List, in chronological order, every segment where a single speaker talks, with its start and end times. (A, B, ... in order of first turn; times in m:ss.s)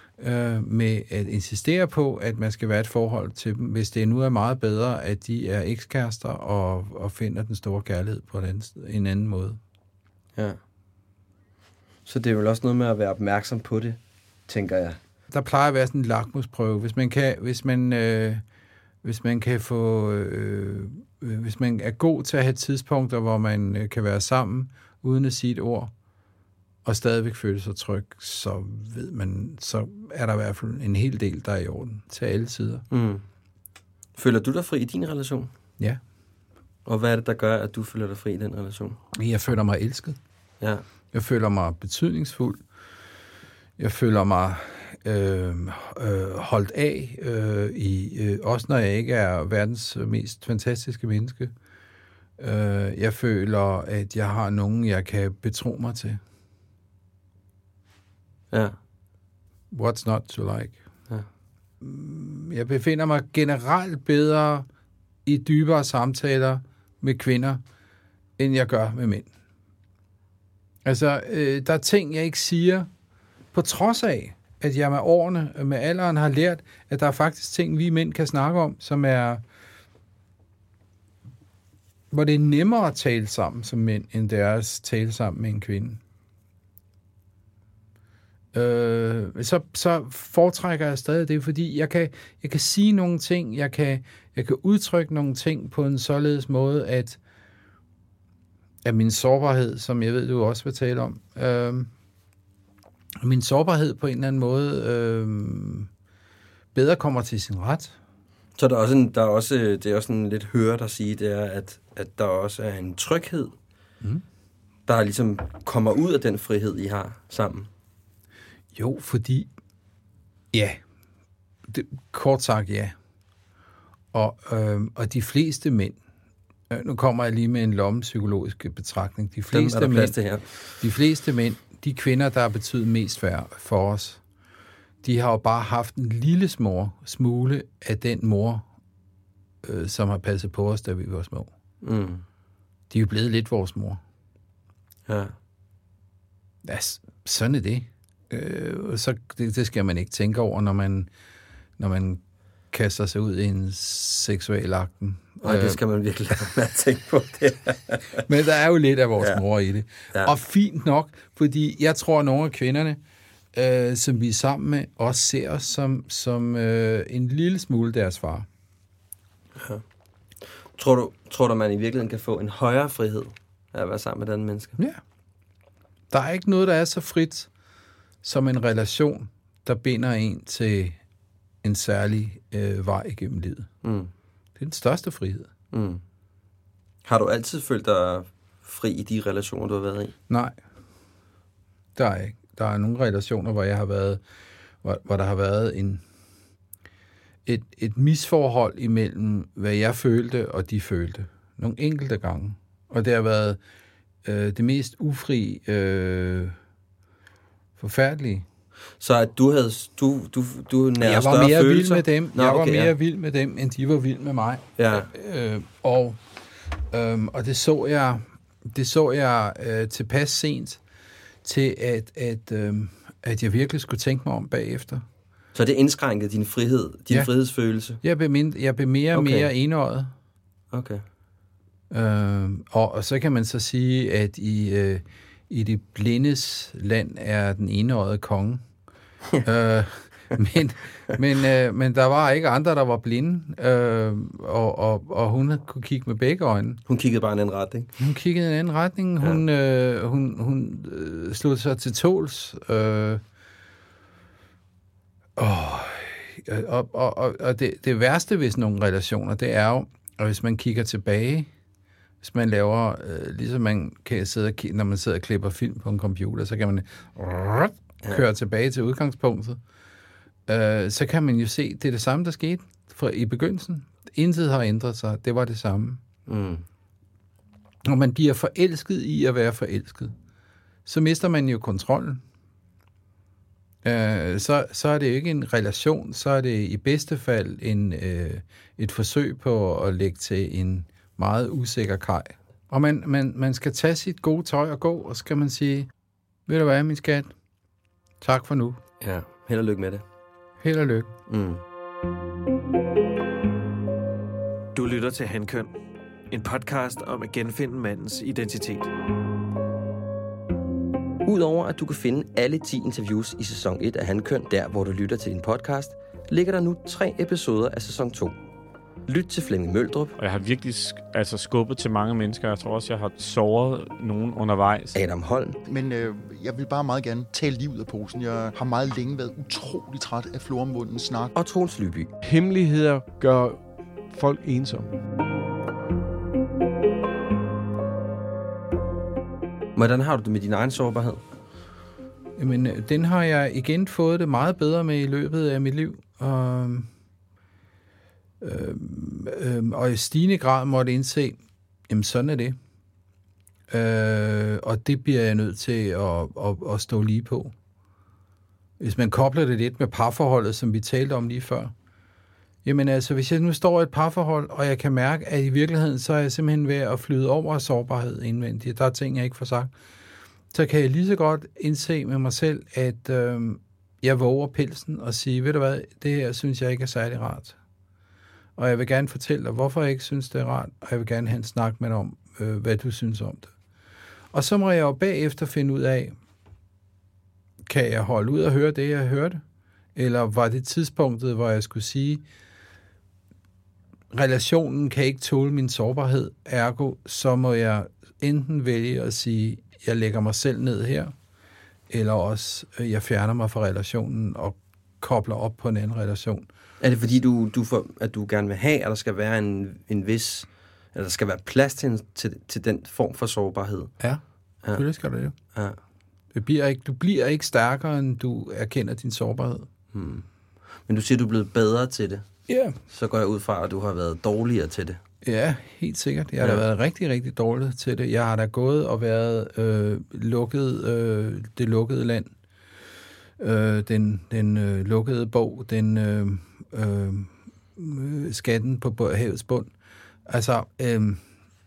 0:00.2-0:09.6 A
0:12.0-0:15.0 B
0:15.3-0:18.4 A
0:19.0-0:25.9 A
0:26.8-0:32.8 A
0:32.9-0:33.2 B
0:34.2-0:35.5 B
0:36.8-0:39.0 B
0:39.1-0:40.2 A
0:41.1-0:42.6 A
0:43.8-0:51.5 A
0:52.4-0:56.2 A
0:58.5-0:58.8 B
0:59.7-1:00.8 A
1:01.8-1:04.7 A
1:05.2-1:07.6 A
1:08.4-1:09.3 A
1:10.8-1:12.9 A
1:13.5-1:19.4 A
1:22.1-1:26.0 A
1:28.5-1:37.2 A
1:38.8-1:41.9 A
1:43.2-1:45.9 A
1:46.7-1:48.0 A
1:48.6-1:53.5 B
1:54.8-1:57.7 B
1:58.7-1:59.5 A
2:00.5-2:00.8 A
2:01.7-2:03.0 A
2:04.1-2:06.0 A
2:06.7-2:10.2 A
2:09.5-2:10.7 B
2:10.8-2:14.2 A
2:15.0-2:18.6 A
2:19.6-2:21.5 A
2:21.8-2:22.2 B
2:22.9-2:24.0 A
2:25.1-2:25.3 B
2:26.6-2:31.1 A
2:31.8-2:32.2 A
2:32.7-2:35.8 A
2:35.4-2:38.2 B
2:38.2-2:43.0 A
2:43.5-2:48.5 A
2:49.6-2:49.8 B
2:50.7-2:54.8 B
2:56.1-2:57.5 A
2:58.2-3:01.0 A
3:01.6-3:03.7 A
3:03.8-3:04.1 B
3:04.6-3:05.5 A
3:05.7-3:06.0 B
3:07.0-3:10.2 B
3:10.3-3:10.6 A
3:12.0-3:14.2 A
3:14.8-3:16.0 A
3:17.4-3:23.6 A
3:24.2-3:26.6 A
3:27.8-3:28.4 A
3:29.0-3:32.9 B
3:31.0-3:36.2 A
3:34.8-3:35.1 B
3:36.9-3:40.8 A
3:41.4-3:45.0 A
3:45.5-3:48.0 B
3:48.0-3:50.1 A
3:49.1-3:49.5 B
3:50.7-3:51.0 B
3:51.9-3:58.6 A
3:59.4-4:06.8 A
4:06.9-4:07.9 B
4:08.0-4:13.2 A
4:15.4-4:21.5 A
4:22.2-4:29.6 A
4:30.5-4:36.0 A
4:36.3-4:36.6 B
4:37.8-4:40.1 A
4:40.8-4:42.2 A
4:43.8-4:55.9 A
4:56.5-4:57.3 A
4:58.2-4:58.8 A
4:59.0-5:00.0 B
5:00.6-5:01.1 A
5:01.3-5:01.6 B
5:04.7-5:05.7 C
5:06.3-5:08.9 C
5:11.2-5:18.3 B
5:19.1-5:20.2 B
5:20.2-5:25.0 D
5:24.9-5:25.6 B
5:25.6-5:31.3 E
5:31.3-5:32.1 B
5:32.2-5:35.0 F
5:39.8-5:41.2 B
5:42.4-5:46.9 A
5:48.4-5:52.6 A
5:53.7-5:57.5 A
5:58.8-6:01.7 A
6:02.6-6:09.7 A
6:10.5-6:17.6 A
6:18.6-6:23.5 A
6:24.3-6:26.2 A
6:27.6-6:29.4 A
6:29.9-6:32.2 A
6:34.1-6:41.1 A
6:41.9-6:46.5 A
6:46.8-6:53.9 B
6:54.0-6:55.3 A
6:56.3-6:59.7 A
6:59.9-7:00.2 B
7:00.8-7:02.2 B
7:02.5-7:02.8 A
7:02.9-7:05.0 B
7:05.2-7:12.3 A
7:13.4-7:19.7 A
7:20.3-7:21.2 A